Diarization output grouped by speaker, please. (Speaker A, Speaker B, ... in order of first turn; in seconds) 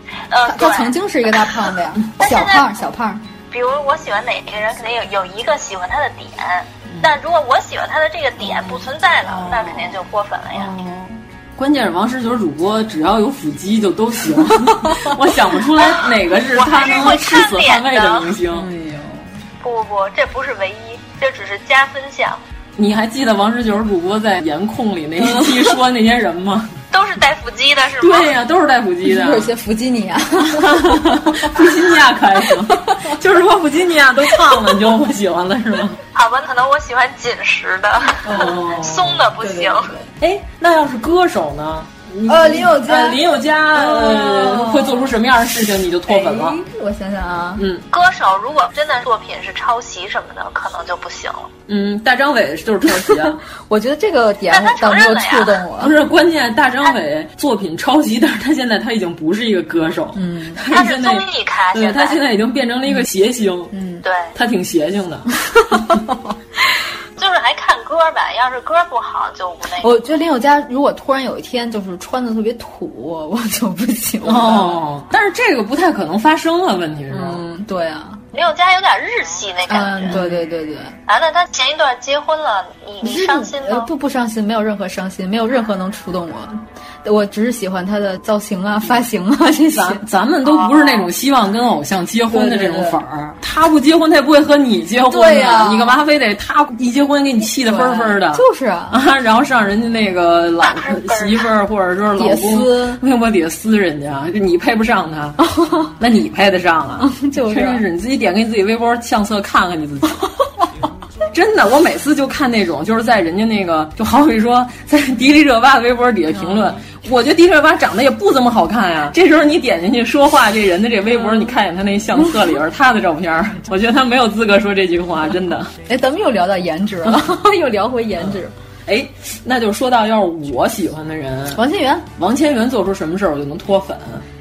Speaker A: 0.3-0.9, 2.2-2.7, 3.5-10.7, 15.8-18.4, 19.6-22.4, 26.9-28.3, 36.1-39.9, 47.9-51.5, 54.5-55.6, 60.7-62.2, 64.0-64.3, 67.2-69.9, 78.3-80.2, 81.1-83.9, 90.4-91.1, 100.6-101.5
Speaker B: 0.4-3.2, 10.6-11.1, 14.6-15.1, 18.5-19.3, 25.2-25.5, 29.0-31.5, 32.8-33.1, 38.2-38.8, 39.4-40.1, 42.2-43.2, 43.7-45.1, 46.1-47.6, 52.9-56.0, 60.1-60.6, 63.7-64.0, 65.5-66.0, 69.8-74.8, 77.1-78.2, 79.7-80.9, 83.0-90.0, 92.3-93.0, 95.1-96.0, 97.6-99.0, 102.2-103.0, 105.4-105.9, 107.0-107.8, 116.3-116.8, 125.9-128.5, 131.5-132.1
Speaker C: 11.6-18.7, 22.8-26.8, 28.0-29.5, 30.5-36.0, 38.3-39.3, 40.2-46.6, 47.6-47.9, 51.7-53.4, 55.8-63.7, 64.3-65.3, 74.2-77.4, 80.1-80.4, 89.7-105.4, 106.0-110.2, 111.3-125.7, 128.8-131.6, 132.2-134.2